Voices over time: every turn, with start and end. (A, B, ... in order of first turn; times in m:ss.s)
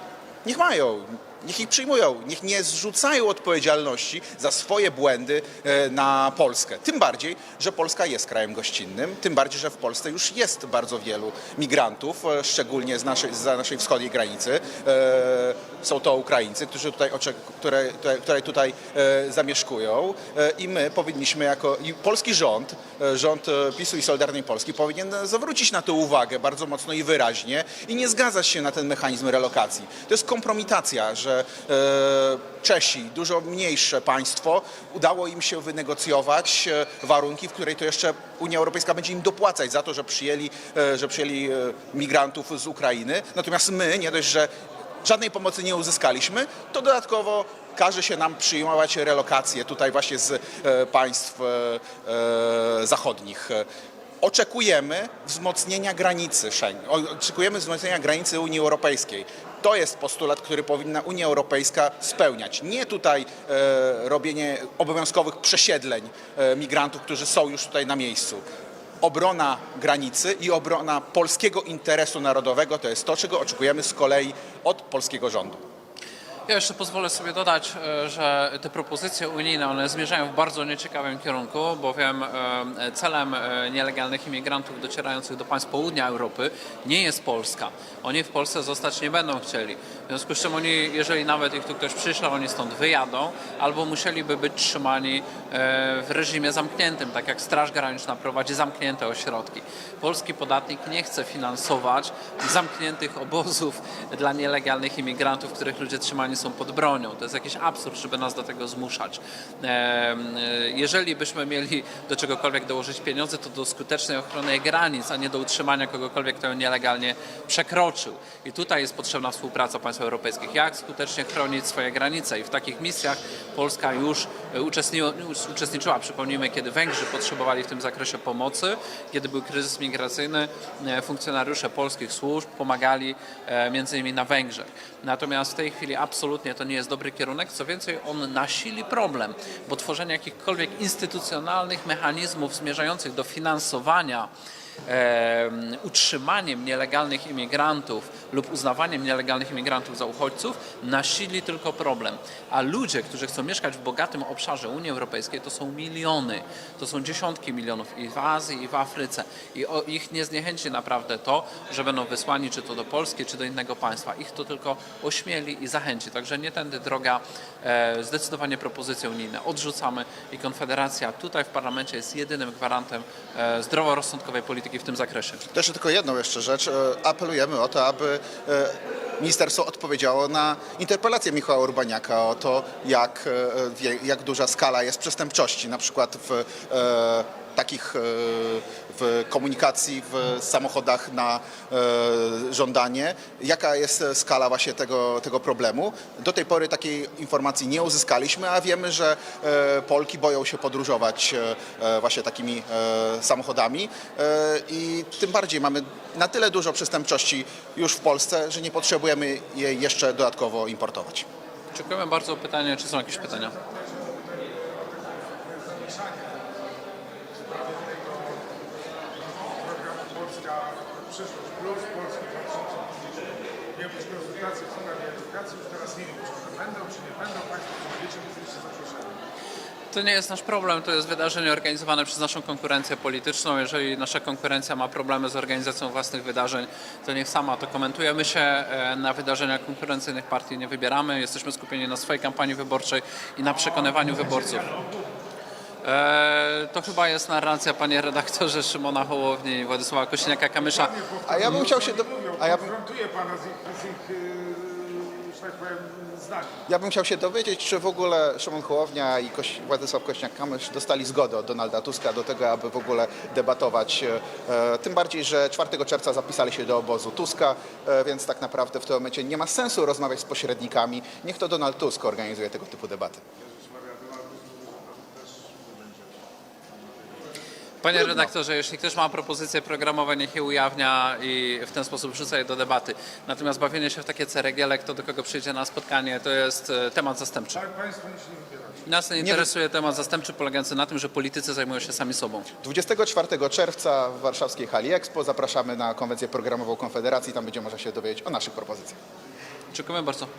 0:00.4-0:44.5 A
0:45.0-0:53.6 A
0:54.2-1:08.4 A
1:09.0-1:15.6 A
1:16.5-2:24.3 B
2:24.9-2:55.4 B
2:55.5-3:31.3 A
3:31.7-3:33.6 B
3:33.6-3:36.3 C
3:37.4-3:38.4 C
3:39.6-3:43.0 C
3:43.7-3:49.2 C
3:49.9-4:04.8 B
4:05.8-4:11.1 B
4:10.9-4:16.6 C
4:11.2-4:12.8 A
4:16.7-4:33.2 A
4:33.5-4:36.1 C
4:37.8-4:47.7 B
4:37.9-4:38.2 A
4:47.6-4:48.8 C
4:48.9-4:52.5 B
4:49.2-4:49.5 A
4:52.6-4:59.0 A
4:59.7-5:00.3 B